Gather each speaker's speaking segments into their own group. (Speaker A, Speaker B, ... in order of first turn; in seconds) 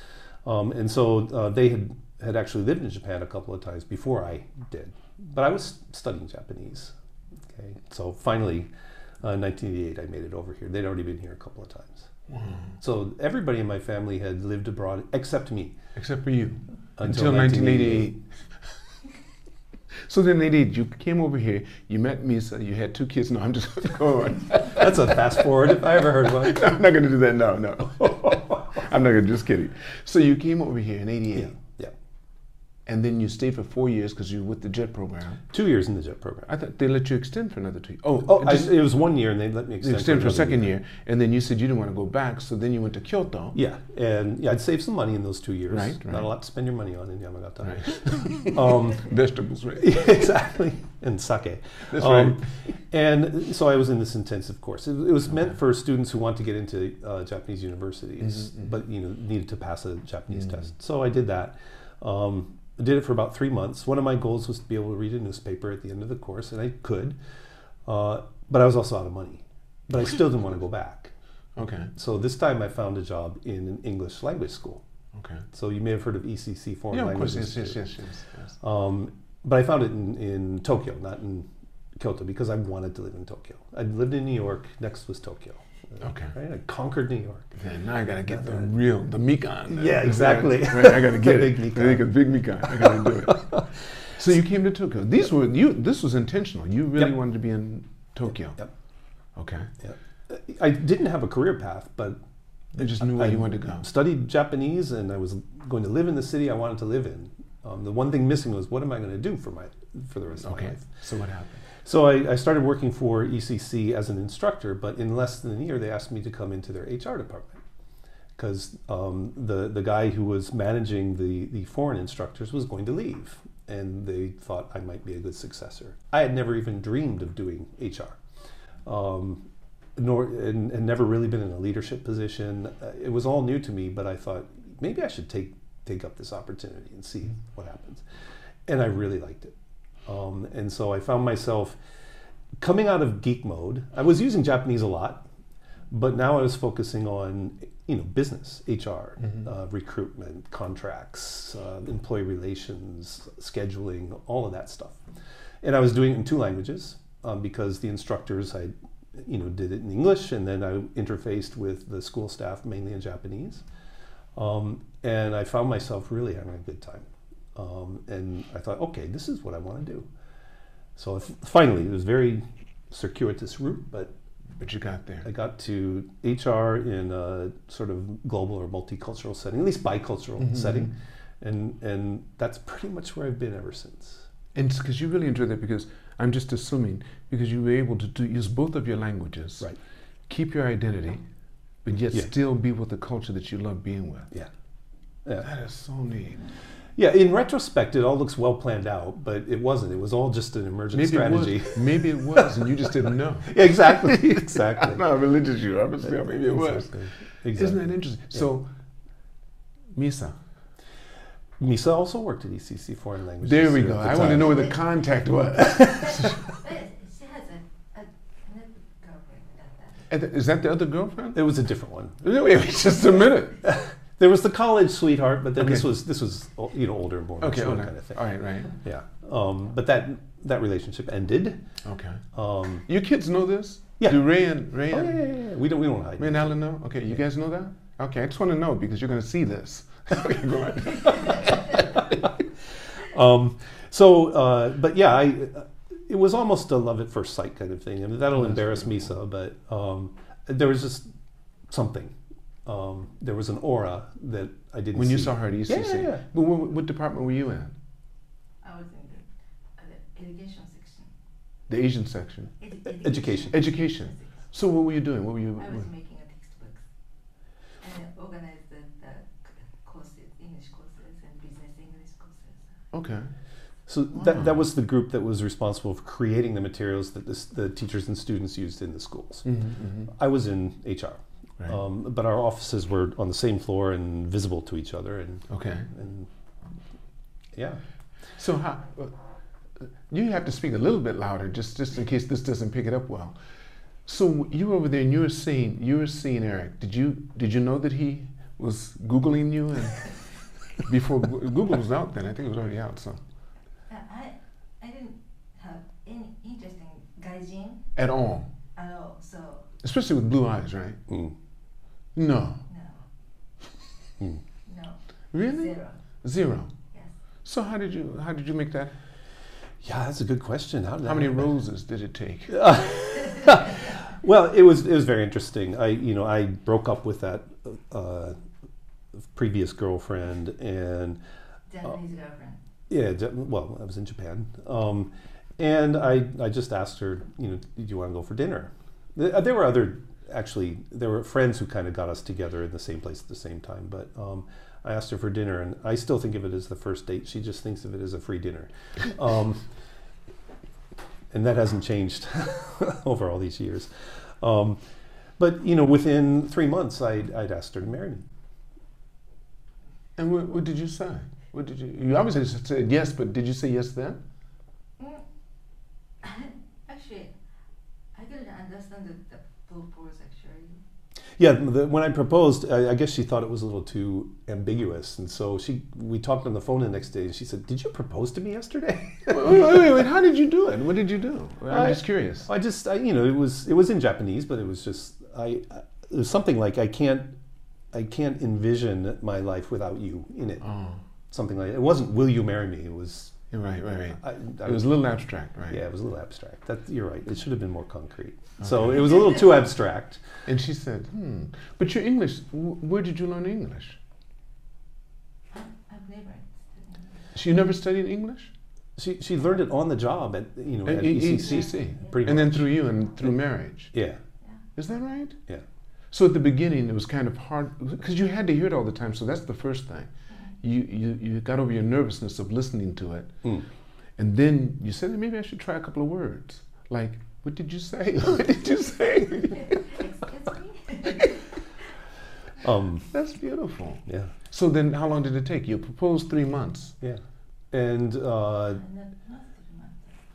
Speaker A: 0.5-6.9, 7.5-8.7, 9.2-12.1, 12.8-15.8, 17.0-18.1, 24.6-26.7, 31.4-31.9, 35.5-36.5, 38.2-40.7, 43.5-49.1, 49.8-67.2, 67.9-71.1, 72.0-74.8, 75.5-77.8, 78.6-87.6, 89.7-93.6, 99.8-102.2, 102.8-110.9, 111.8-117.6, 118.4-128.2, 128.9-138.0, 138.7-139.5, 140.1-141.8, 142.6-145.3, 145.9-155.0, 155.6-163.6, 164.4-170.1, 171.0-174.1, 175.2-184.3, 197.0-202.7, 203.4-205.0, 206.4-207.8, 211.6-214.7, 221.3-222.2, 223.6-228.2, 228.8-231.6, 232.3-232.8, 234.9-236.5, 241.2-242.0, 243.1-251.1, 251.7-252.2, 252.7-256.2, 262.9-263.6, 273.9-286.3, 287.5-287.8, 311.1-311.3, 319.8-321.5, 322.5-328.4, 329.3-331.2, 332.9-349.6, 351.3-353.9, 354.4-354.8, 355.4-358.2, 371.4-379.8, 381.7-387.4, 387.9-390.7, 391.3-393.4, 394.1-394.9, 395.7-400.2, 409.0-412.7, 413.9-414.2, 432.6-433.1, 434.1-434.3, 437.7-438.8
Speaker B: 12.3-12.7, 16.0-18.2, 20.1-25.1, 26.2-31.5, 32.9-35.4, 36.5-38.8, 39.8-43.6, 45.7-46.3, 47.6-50.0, 51.9-52.4, 71.6-71.9, 75.1-75.5, 76.9-78.5, 86.0-86.3, 87.6-98.6, 99.3-99.7, 102.8-103.9, 110.4-111.6, 174.6-175.3, 184.6-189.7, 190.3-191.2, 191.8-194.3, 195.4-196.4, 200.9-208.7, 209.9-210.4, 213.4-216.4, 220.1-221.5, 222.2-223.6, 225.6-225.9, 227.4-228.7, 231.8-232.2, 232.9-235.2, 236.2-241.8, 248.4-249.0, 254.9-257.8, 261.7-262.5, 263.5-265.9, 272.9-273.3, 274.2-274.5, 279.5-280.1, 285.5-285.9, 288.4-289.1, 289.8-293.4, 294.1-300.1, 300.8-303.2, 308.0-308.5, 309.8-311.0, 312.1-312.6, 315.3-316.7, 317.4-318.9, 321.0-322.7, 360.2-364.2, 379.3-382.5, 390.6-391.0, 393.5-395.8, 400.5-404.0, 407.3-408.5, 410.9-413.9, 414.8-415.4, 416.1-420.1, 420.6-423.3, 424.2-429.9, 433.1-437.0
Speaker C: 215.9-220.1, 258.6-259.3, 259.8-261.1, 262.6-264.3, 265.6-266.8, 267.8-272.7, 303.9-307.9, 308.8-309.7, 312.7-313.0, 314.7-316.0, 331.7-332.6, 365.0-365.2, 366.2-367.3, 368.1-370.8, 405.5-407.2, 411.7-412.1, 429.6-431.5, 438.8-440.2